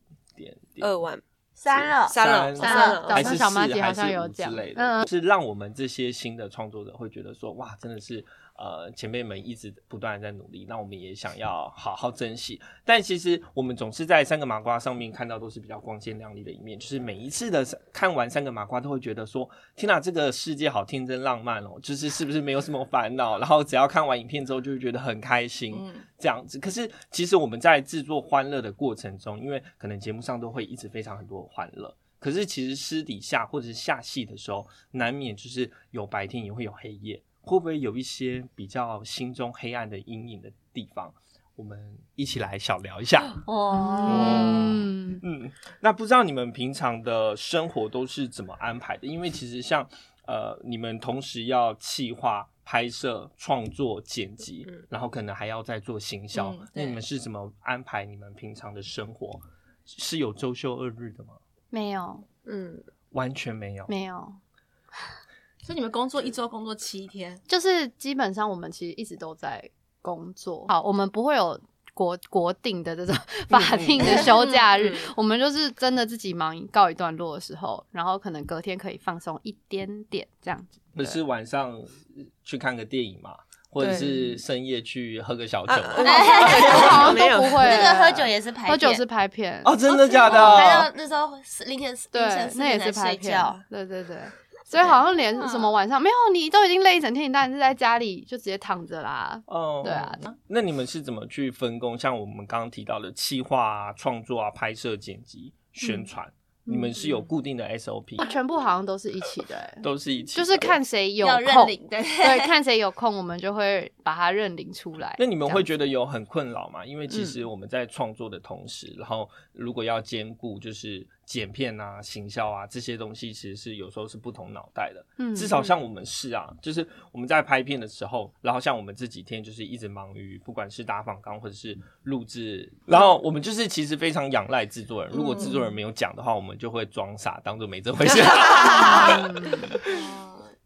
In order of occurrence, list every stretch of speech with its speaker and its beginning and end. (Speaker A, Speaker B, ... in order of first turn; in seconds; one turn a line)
Speaker A: 0.3-0.9
Speaker B: 0.8-3.4
Speaker C: 1.6-3.1
Speaker A: 2.1-43.4
Speaker D: 2.6-5.1
Speaker E: 25.7-26.0
Speaker C: 43.4-44.6
Speaker D: 43.7-45.2
Speaker A: 44.0-61.4
Speaker E: 56.3-57.0
Speaker D: 61.7-62.2
Speaker B: 62.5-62.8
Speaker A: 63.1-63.9
Speaker D: 63.9-64.4
Speaker E: 65.6-67.4
Speaker D: 67.5-81.2
Speaker A: 73.5-74.3
Speaker B: 74.8-75.1
Speaker A: 80.9-87.1
Speaker D: 83.8-84.3
Speaker B: 83.8-84.1
Speaker B: 85.7-87.9
Speaker C: 86.0-89.0
Speaker D: 86.0-89.7
Speaker A: 89.6-90.9
Speaker C: 89.8-93.6
Speaker D: 92.1-100.2
Speaker A: 99.5-108.2
Speaker D: 106.7-107.1
Speaker D: 108.2-115.7
Speaker A: 109.8-110.8
Speaker C: 111.2-112.5
Speaker A: 115.2-139.3
Speaker D: 125.2-125.6
Speaker D: 135.4-135.6
Speaker D: 138.7-139.8
Speaker C: 139.8-140.5